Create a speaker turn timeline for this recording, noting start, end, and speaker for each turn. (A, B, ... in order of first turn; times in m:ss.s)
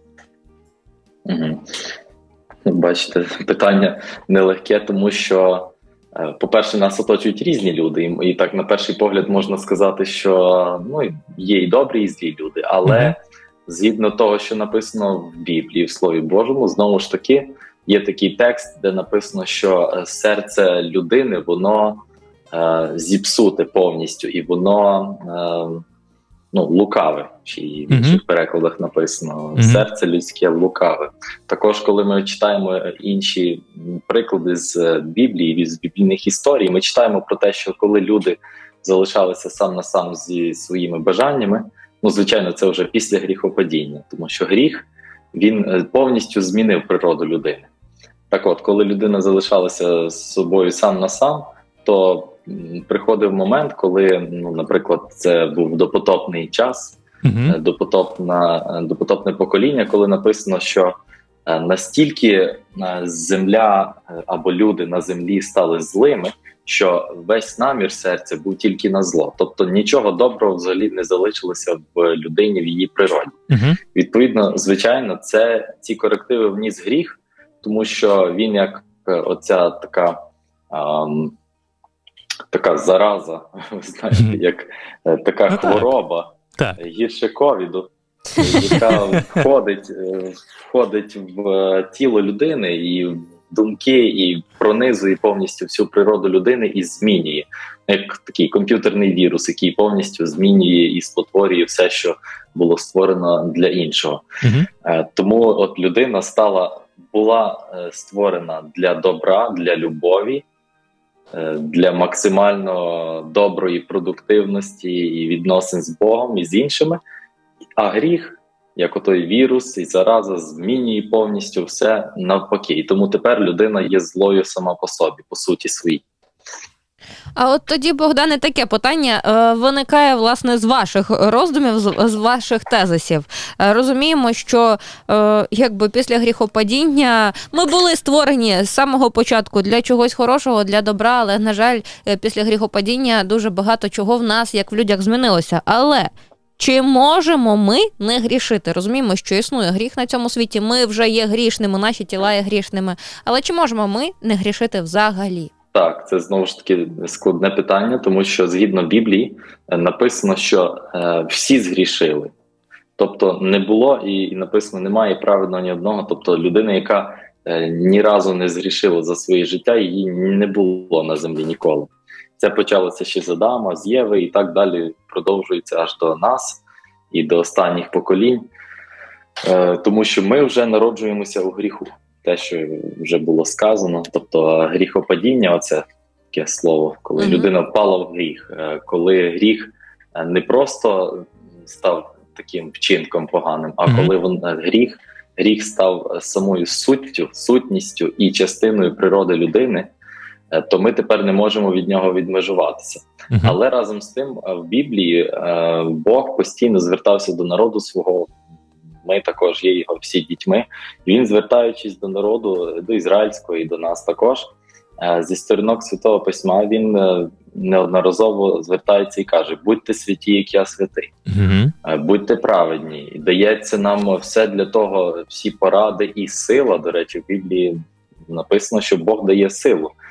0:01.3-0:01.8 A
0:02.7-0:25.8 A
0:12.8-0:13.2 B
0:26.5-0:47.7 A
0:27.9-0:28.2 B
0:29.6-0:29.9 B
0:48.3-1:01.0 A
0:57.2-0:57.6 B
1:01.5-1:13.4 A
1:13.5-1:13.8 B
1:13.9-1:20.2 A
1:20.7-1:21.4 A
1:22.5-1:44.3 A
1:25.5-1:25.8 B
1:28.4-1:29.3 B
1:44.4-1:44.7 B
1:44.8-1:50.4 A
1:51.3-1:57.0 A
1:57.8-2:06.0 A
2:07.4-2:35.5 C
2:35.7-2:42.3 A
2:43.0-2:58.4 A
2:59.4-3:19.9 A
3:07.2-3:07.5 C
3:13.9-3:14.1 B
3:20.5-3:28.3 A
3:29.0-3:34.5 A
3:35.0-3:41.1 A
3:41.3-3:41.7 B
3:41.8-3:49.9 A